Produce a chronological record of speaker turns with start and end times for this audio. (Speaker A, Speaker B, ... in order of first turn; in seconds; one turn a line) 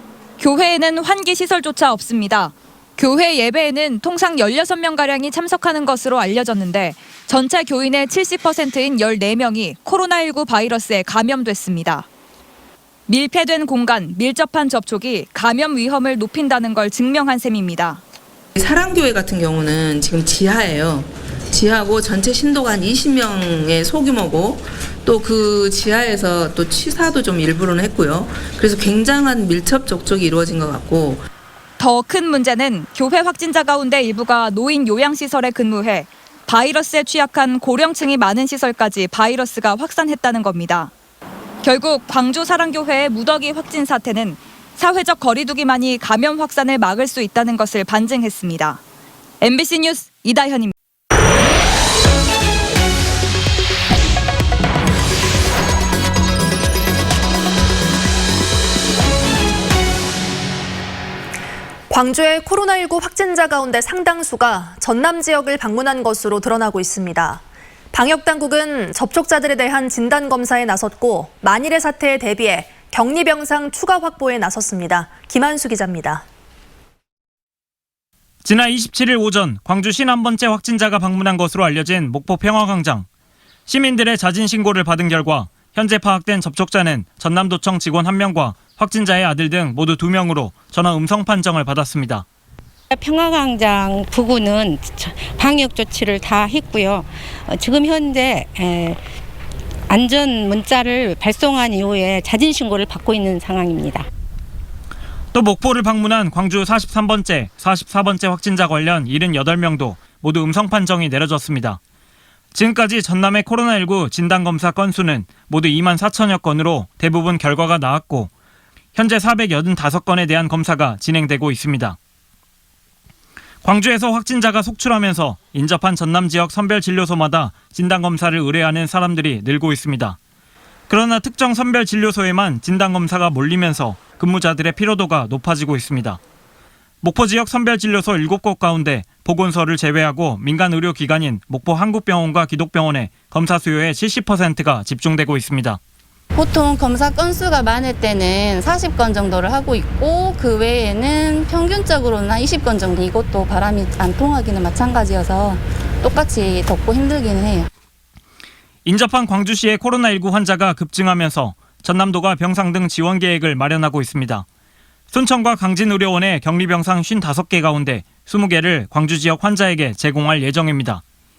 Speaker A: 0.4-12.1
Speaker A: 13.1-18.0
Speaker B: 18.6-31.2
Speaker A: 31.8-40.9
Speaker A: 41.6-48.8
Speaker A: 49.4-50.7
Speaker C: 61.9-67.4
Speaker C: 67.9-76.2
Speaker D: 78.4-83.0
Speaker D: 83.7-92.2
Speaker E: 92.9-99.0
Speaker E: 99.9-104.1
Speaker D: 105.3-111.8
Speaker D: 112.5-118.3
Speaker D: 118.9-122.0
Speaker D: 123.6-130.2
Speaker D: 130.9-136.2
Speaker D: 137.0-145.8
Speaker F: 146.3-157.7
Speaker D: 158.8-164.4
Speaker D: 165.1-171.0